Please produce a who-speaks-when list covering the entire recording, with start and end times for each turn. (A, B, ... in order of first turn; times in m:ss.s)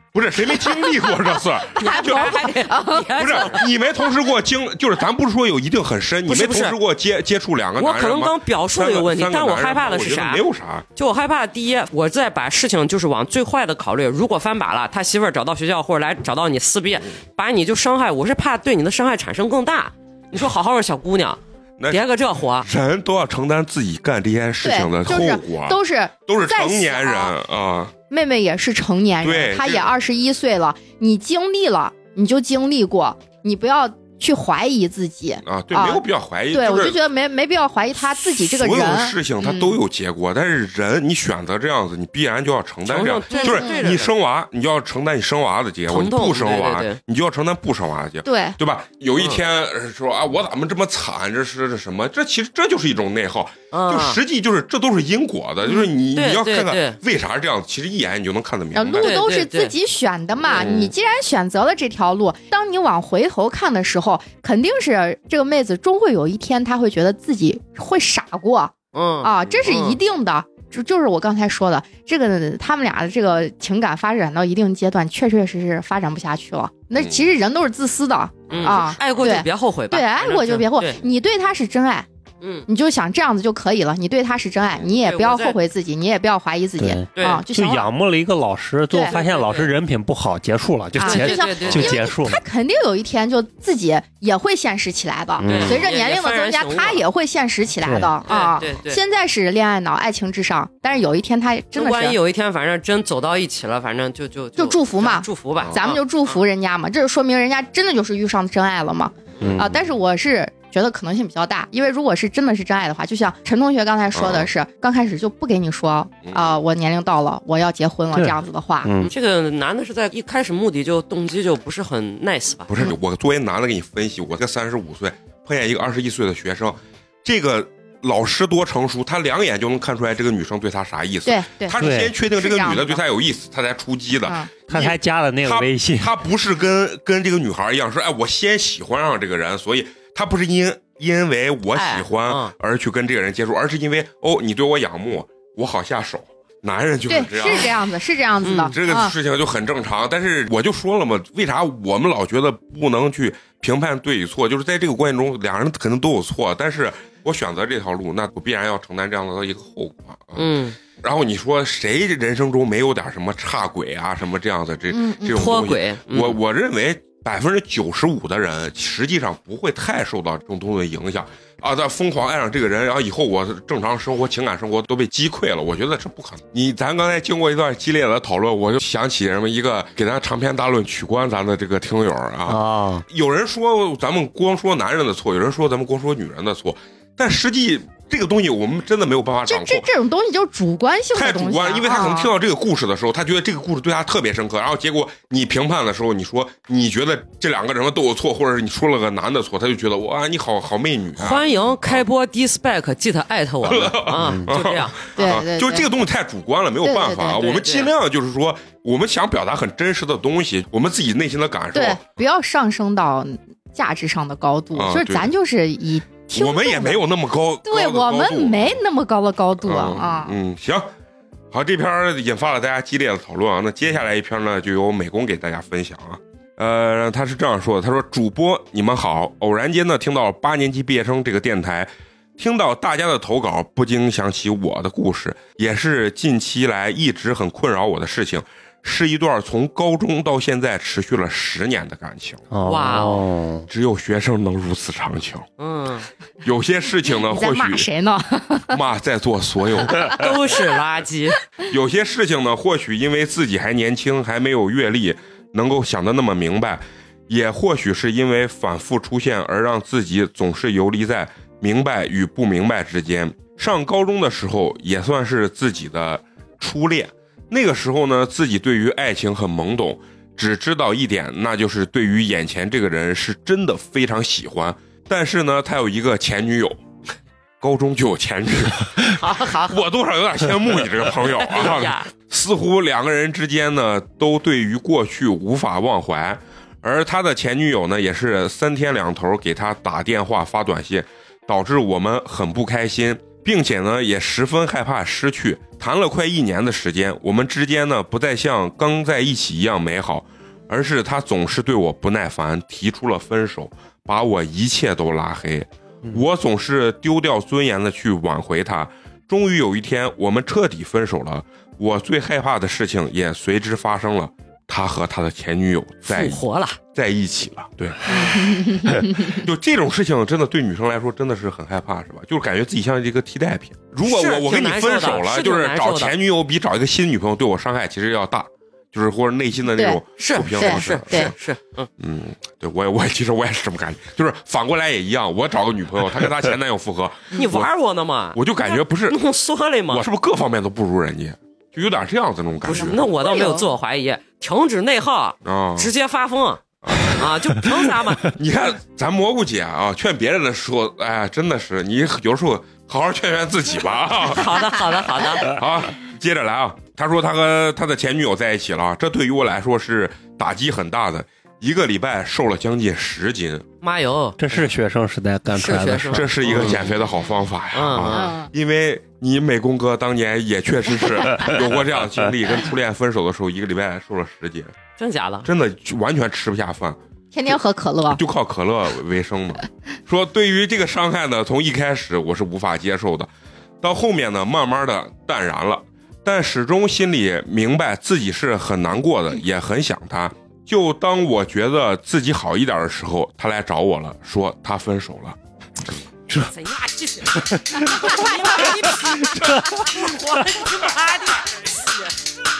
0:00.1-0:02.5 A
0:00.5-0:00.8 B
0:01.7-0:03.6 C
0:01.8-0:03.7 B
0:03.2-0:10.8 A
0:06.2-0:06.8 B
0:07.8-0:10.4 B
0:11.0-0:22.7 B
0:22.6-0:27.9 A
0:24.6-0:27.3 C
0:28.1-0:39.8 C
0:29.2-0:29.9 A
0:35.4-0:37.0 A
0:38.1-0:59.1 A
0:42.8-0:44.1 B
0:43.3-0:43.9 C
0:45.9-0:47.0 B
0:48.2-0:48.6 C
0:49.2-0:49.4 B
0:53.7-0:54.2 B
0:55.7-0:57.0 B
0:58.7-1:22.1 C
0:59.0-0:59.7 B
1:00.5-1:00.7 B
1:00.5-1:00.9 A
1:08.9-1:10.0 B
1:17.0-1:17.2 A
1:18.5-1:18.9 A
1:18.5-1:21.0 B
1:22.4-1:22.6 B
1:22.7-1:27.9 C
1:24.9-1:25.6 B
1:26.8-1:32.4 D
1:27.2-1:27.4 B
1:28.9-1:29.2 C
1:29.1-1:29.7 B
1:31.0-1:42.2 C
1:31.0-1:32.0 B
1:35.4-1:35.8 D
1:35.4-1:37.0 B
1:37.8-1:38.1 D
1:38.3-1:39.0 B
1:41.7-1:46.4 B
1:44.6-1:58.9 C
1:49.4-1:49.8 D
1:54.1-1:54.5 A
1:56.2-1:56.6 A
1:58.1-1:59.1 D
1:59.0-2:02.7 B
2:02.7-2:27.8 A
2:11.2-2:13.0 C
2:11.8-2:12.1 D
2:14.7-2:16.1 D
2:21.7-2:22.5 B
2:27.1-2:29.1 C
2:28.4-2:28.7 B
2:28.7-3:09.9 A
2:40.4-2:40.8 B
2:44.9-2:45.4 C
2:45.3-2:46.4 B
3:02.5-3:03.0 D
3:09.5-3:12.3 C
3:11.1-3:22.0 A
3:21.2-3:25.1 B
3:23.6-3:32.0 A
3:24.2-3:24.4 D
3:25.2-3:25.9 C
3:26.8-3:27.4 C
3:27.4-3:27.9 B
3:31.7-3:37.0 C
3:34.8-3:35.3 A
3:36.3-3:38.8 A
3:37.6-3:40.3 C
3:39.6-3:40.9 A
3:41.5-4:02.4 A
4:02.5-4:03.7 D
4:02.6-4:03.2 B
4:03.7-4:05.5 A
4:05.6-4:06.1 B
4:06.4-4:07.9 A
4:07.1-4:08.8 C
4:08.7-4:10.4 A
4:10.0-4:11.4 B
4:11.6-4:36.8 A
4:37.6-5:31.3 A
4:39.1-4:39.8 B
4:41.2-4:42.1 B
5:16.1-5:16.8 B
5:18.0-5:18.4 B
5:18.6-5:19.1 C
5:24.0-5:26.1 B
5:29.7-5:30.0 C
5:30.2-5:31.9 B
5:30.6-5:31.3 C
5:32.0-5:37.7 A
5:37.3-5:40.0 B
5:38.3-5:39.2 A
5:39.9-5:43.0 A
5:42.6-5:48.3 B
5:42.7-5:43.6 C
5:45.4-5:45.9 A
5:46.8-5:54.7 A
5:54.2-5:55.6 B
5:55.3-6:03.6 A
6:03.8-6:04.4 B
6:04.4-6:06.8 D
6:05.5-6:06.9 B
6:06.1-6:14.7 A
6:07.7-6:08.3 B
6:08.1-6:08.5 C
6:15.0-6:15.5 B
6:15.4-6:17.0 A
6:17.3-6:18.2 C
6:18.1-6:23.3 A
6:23.8-6:35.4 A
6:36.4-6:42.1 B
6:37.3-6:38.2 D
6:39.1-6:39.7 A
6:39.3-6:39.9 D